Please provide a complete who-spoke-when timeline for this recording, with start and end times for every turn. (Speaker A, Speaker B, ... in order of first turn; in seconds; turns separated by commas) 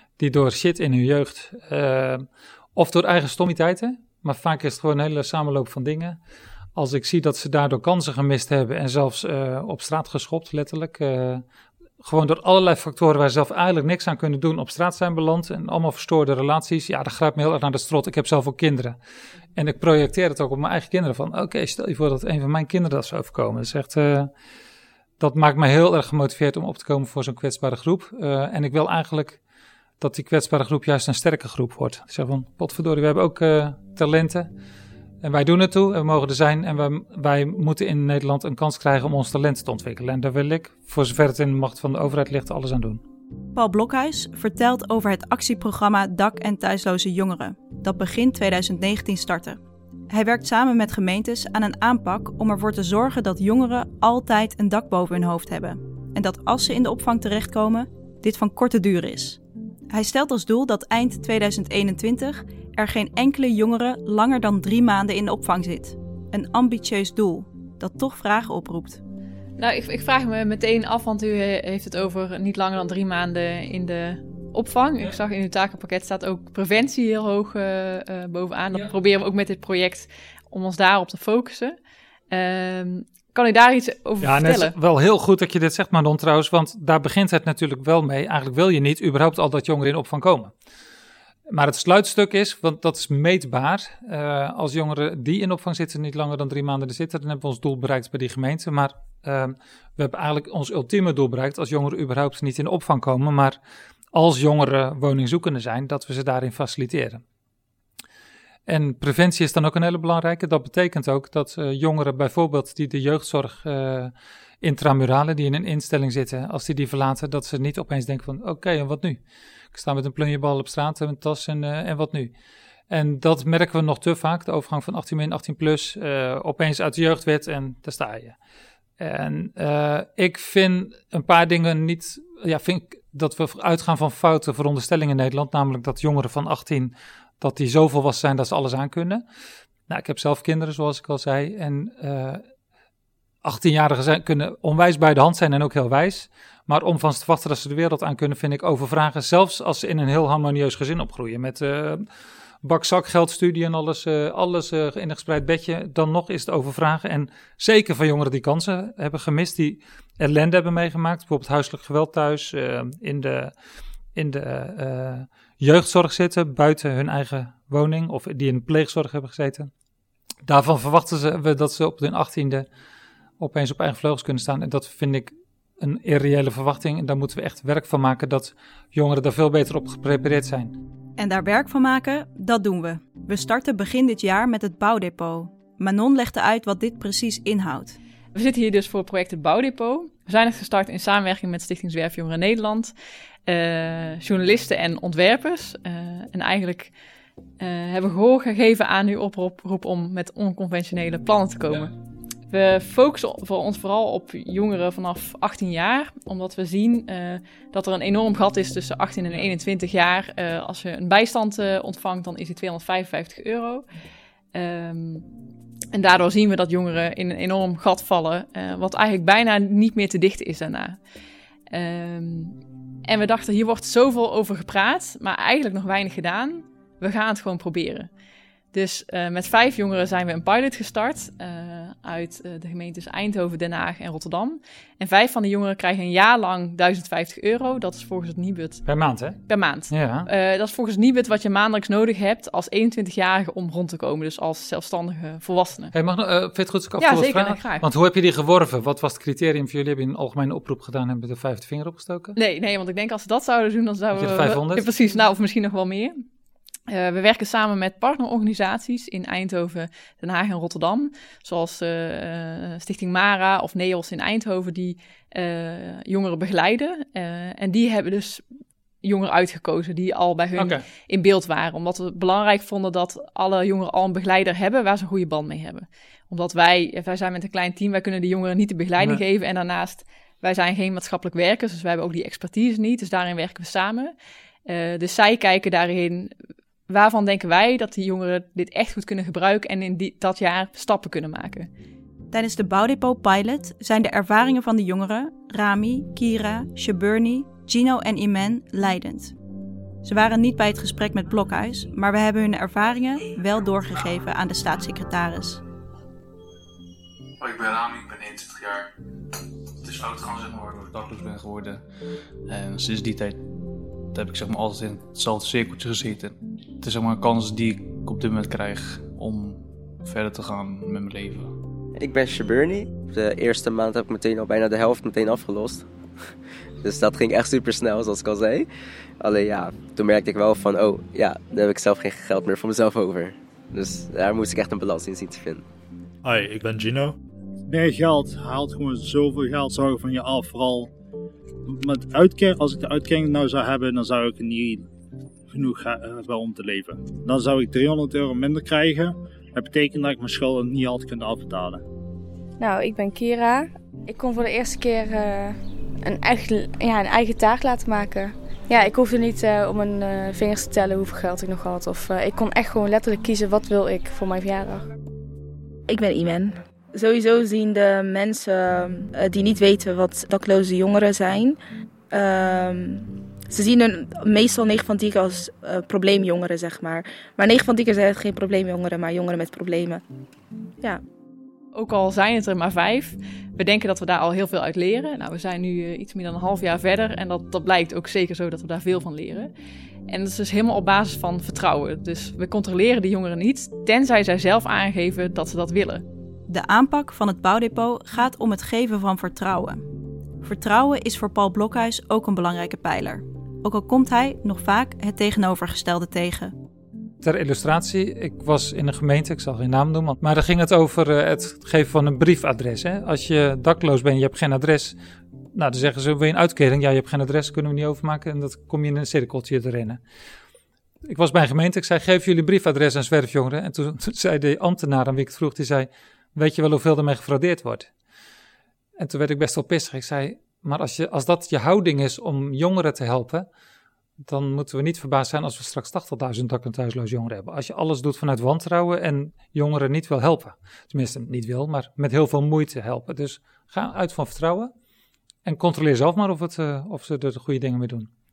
Speaker A: 0.2-6.2, Speaker A: 6.8-11.4, Speaker A: 12.0-19.0, Speaker A: 19.6-24.3, Speaker A: 25.2-29.4, Speaker A: 30.0-34.5, Speaker A: 35.2-43.0, Speaker B: 43.5-49.6, Speaker B: 50.1-69.0, Speaker C: 69.6-81.8, Speaker C: 82.3-84.7, Speaker A: 84.2-90.5, Speaker A: 91.5-103.6, Speaker A: 104.1-107.2, Speaker A: 108.7-119.2, Speaker A: 119.7-122.3, Speaker A: 122.9-128.3, Speaker A: 129.0-139.2, Speaker A: 139.9-142.4, Speaker A: 143.4-152.0, Speaker A: 152.6-163.5, Speaker A: 164.2-169.7, Speaker A: 170.5-172.7, Speaker A: 173.4-180.8, Speaker B: 181.2-188.0, Speaker C: 188.3-192.9, Speaker C: 193.5-196.9, Speaker C: 197.6-201.9, Speaker C: 202.5-213.8, Speaker C: 214.5-215.2, Speaker C: 215.9-221.0, Speaker C: 221.7-228.1, Speaker C: 228.7-238.8, Speaker A: 238.9-240.3, Speaker C: 239.5-245.9, Speaker A: 245.9-252.4, Speaker C: 247.0-247.8, Speaker C: 252.4-256.2, Speaker A: 254.1-254.9, Speaker C: 256.9-268.4, Speaker C: 269.0-284.1, Speaker A: 270.6-270.8, Speaker C: 284.7-286.3, Speaker C: 286.9-291.7, Speaker B: 292.3-299.4, Speaker B: 300.0-305.6, Speaker D: 307.4-308.9, Speaker D: 309.8-311.9, Speaker D: 312.5-313.4, Speaker D: 314.1-321.6, Speaker E: 321.9-325.9, Speaker E: 326.8-328.7, Speaker E: 329.2-335.6, Speaker F: 336.2-337.2, Speaker F: 337.7-340.9, Speaker F: 341.7-344.9, Speaker F: 345.5-351.8, Speaker G: 352.6-364.9, Speaker H: 365.9-371.6, Speaker H: 372.1-380.0, Speaker C: 381.7-389.5, Speaker C: 390.1-396.0, Speaker B: 396.5-399.8, Speaker B: 400.4-406.5, Speaker A: 407.2-415.0, Speaker A: 415.5-420.0, Speaker A: 421.1-427.9, Speaker A: 429.0-433.5, Speaker A: 434.2-444.7, Speaker A: 445.4-448.1